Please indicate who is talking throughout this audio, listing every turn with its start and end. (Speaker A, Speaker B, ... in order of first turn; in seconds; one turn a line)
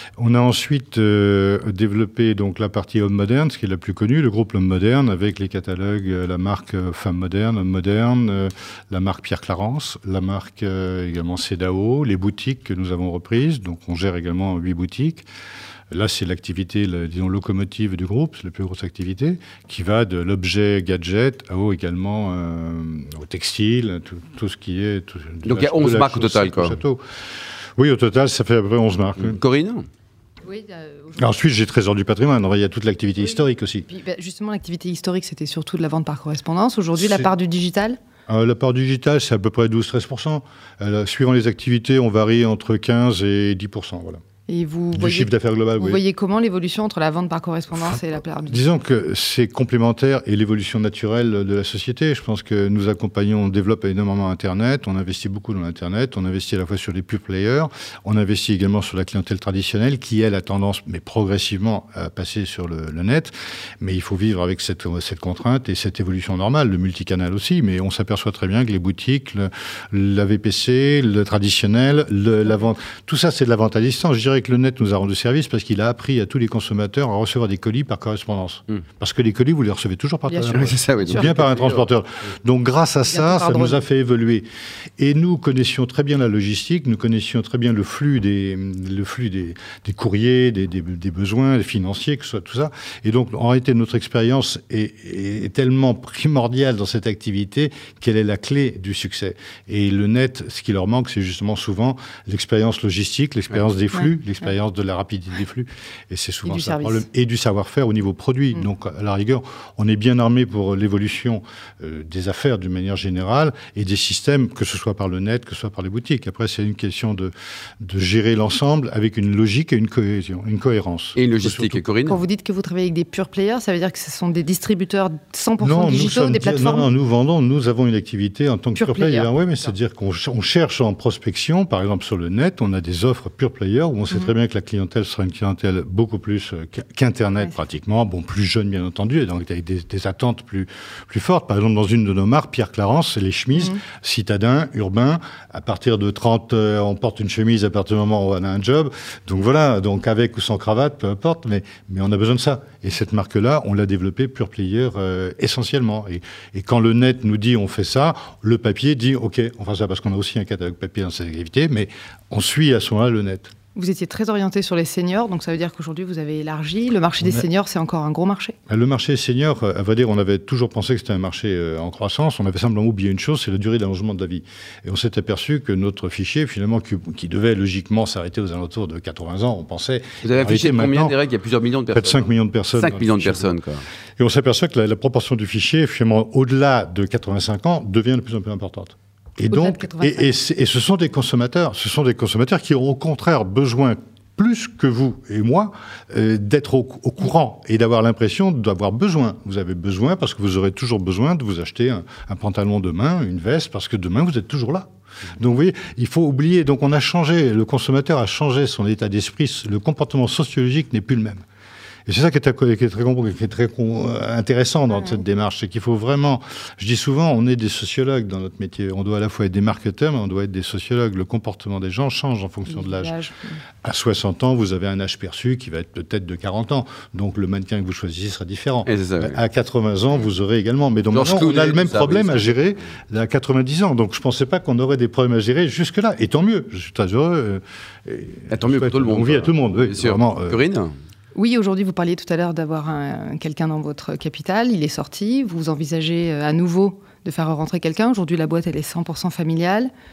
Speaker A: 0.2-15.2
Speaker A: 15.9-27.0
Speaker B: 25.4-26.8
Speaker A: 27.8-29.4
Speaker B: 29.2-29.8
Speaker C: 30.4-31.3
Speaker A: 31.1-33.9
Speaker C: 33.9-38.0
Speaker A: 37.0-37.3
Speaker A: 38.3-44.2
Speaker C: 44.5-48.6
Speaker A: 44.9-46.0
Speaker A: 47.7-84.4
Speaker C: 80.3-81.3
Speaker B: 80.5-81.9
Speaker C: 83.1-83.8
Speaker A: 85.0-121.8
Speaker C: 106.4-107.0
Speaker B: 121.1-122.2
Speaker C: 122.1-126.9
Speaker A: 125.6-163.5
Speaker C: 128.7-129.7
Speaker C: 143.5-143.8
Speaker C: 163.7-168.5
Speaker A: 168.7-181.2
Speaker B: 180.2-183.8
Speaker A: 181.9-183.5
Speaker A: 184.2-204.9
Speaker C: 189.5-190.3
Speaker A: 205.4-211.4
Speaker A: 212.1-223.2
Speaker C: 214.9-215.2
Speaker C: 222.7-223.6
Speaker A: 223.8-240.6
Speaker B: 228.8-229.4
Speaker B: 231.1-232.6
Speaker B: 238.5-240.9
Speaker C: 241.3-249.9